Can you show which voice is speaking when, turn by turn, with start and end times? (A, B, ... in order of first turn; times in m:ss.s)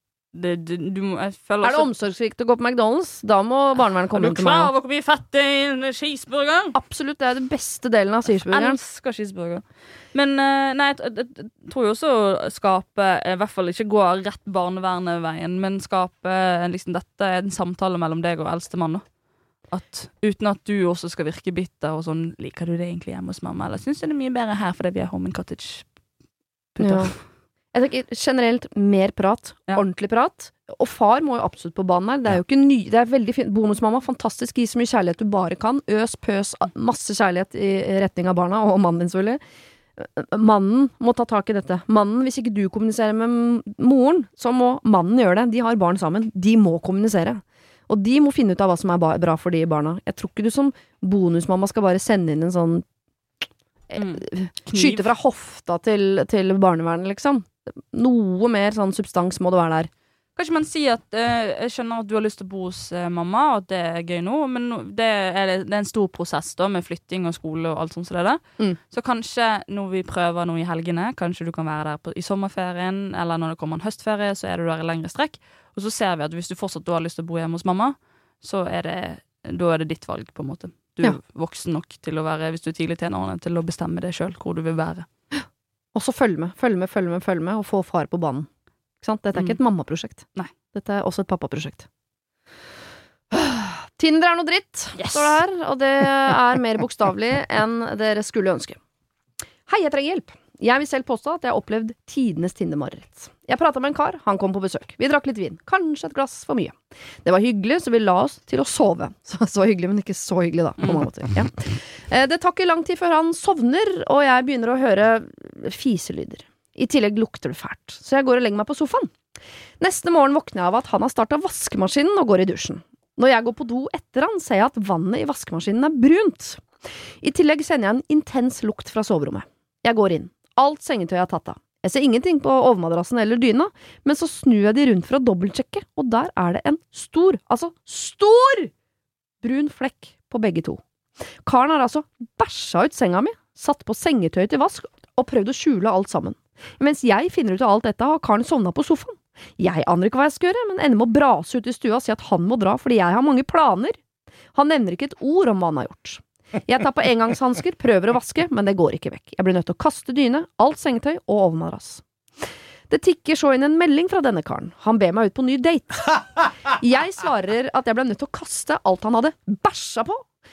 0:00.3-0:01.9 A
0:01.6-0:04.7 B
0:04.1-0:06.8 A
0:06.7-0:08.8 B
0:08.5-0:19.1 A
0:19.7-0:25.9 A
0:26.8-0:27.2 A
0:26.8-0:27.2 B
0:27.7-0:39.4 B
0:40.0-0:52.8 B
0:53.9-0:59.9 B
0:53.9-0:55.1 A
1:00.4-1:25.1 A
1:25.3-1:28.5 B
1:29.0-1:31.9 B
1:33.3-1:38.8 B
1:35.0-1:35.4 A
1:39.7-1:59.1 B
1:50.8-1:51.1 A
1:59.8-2:06.6 B
2:07.2-2:18.7 B
2:19.4-2:20.8 B
2:21.4-2:34.0 B
2:34.5-2:42.0 B
2:42.9-2:50.2 B